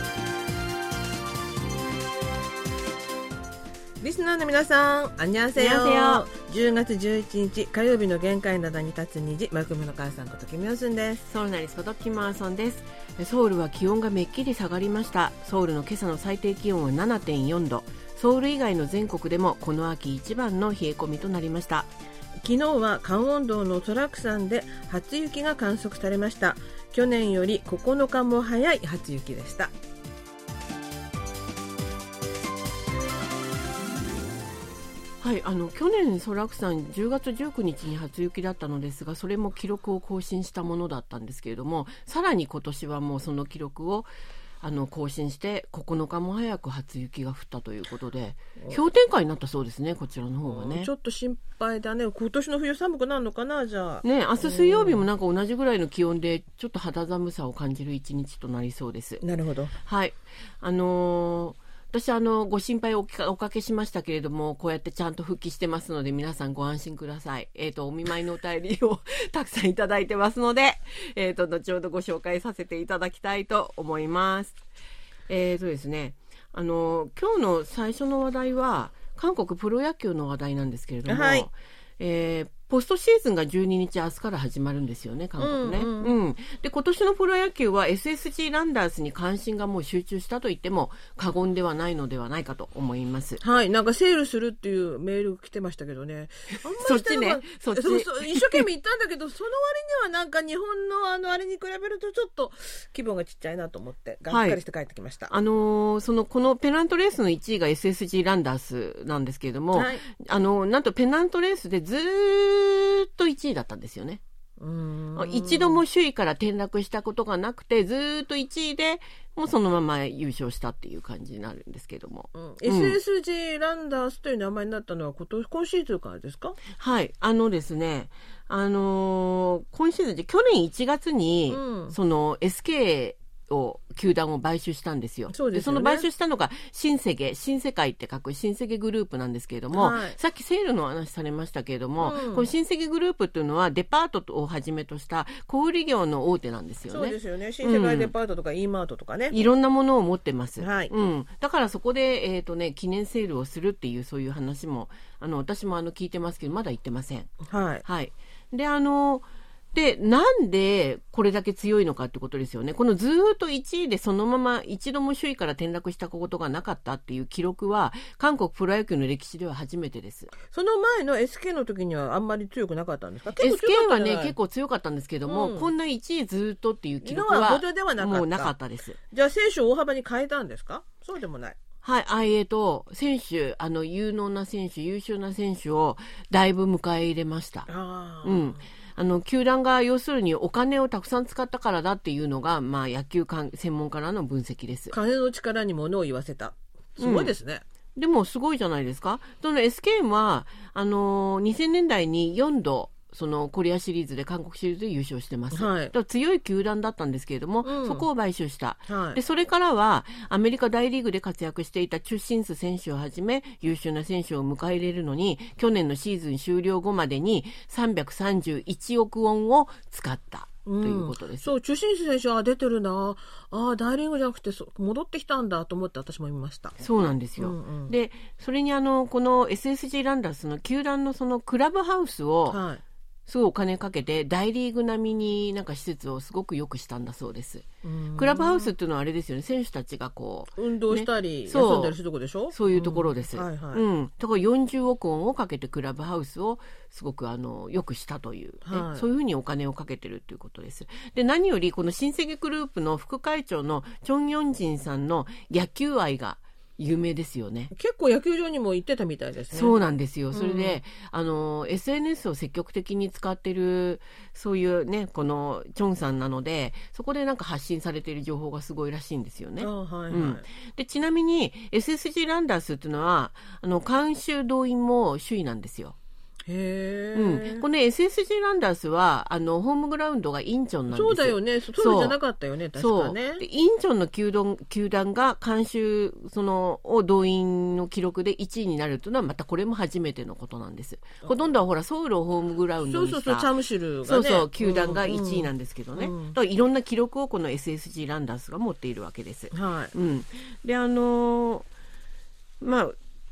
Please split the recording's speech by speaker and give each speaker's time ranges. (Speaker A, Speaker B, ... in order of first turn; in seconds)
Speaker A: 4.0-11.2, 22.4-29.7, 50.5-55.0, 59.2-59.7, 81.1-81.5, 85.4-86.1, 93.4-105.3, 109.7-110.0, 114.6-115.8, 122.3-126.6, 131.5-132.0, 135.3-136.1, 139.7-140.2, 142.0-142.5, 146.9-149.4, 150.6-150.9, 157.4-157.8, 170.4-174.3, 175.3-175.7, 177.0-178.5, 179.1-181.6, 187.7-188.6, 194.9-197.6, 205.5-205.9, 207.6-208.1, 208.9-209.2, 220.7-226.8, 227.4-227.9, 232.5-232.8, 237.8-238.7, 240.6-243.8, 248.6-249.1, 257.7-259.8, 260.3-260.8, 269.6-270.4, 276.5-277.6, 280.9-283.4, 292.9-296.4, 299.5-299.9
Speaker B: 5.6-6.3, 11.3-21.9, 35.2-44.1, 44.6-50.9, 54.0-59.2, 59.8-74.6, 75.3-93.4, 96.7-98.7, 104.3-104.6, 105.3-114.2, 115.2-123.0, 126.8-148.1, 149.3-157.3, 157.8-170.3, 173.4-179.0, 181.8-187.7, 188.2-194.9, 197.0-197.3, 198.0-221.5, 226.8-232.6, 233.3-257.7, 259.5-276.0, 277.1-282.2, 282.8-293.5, 294.1-301.7, 302.6-303.0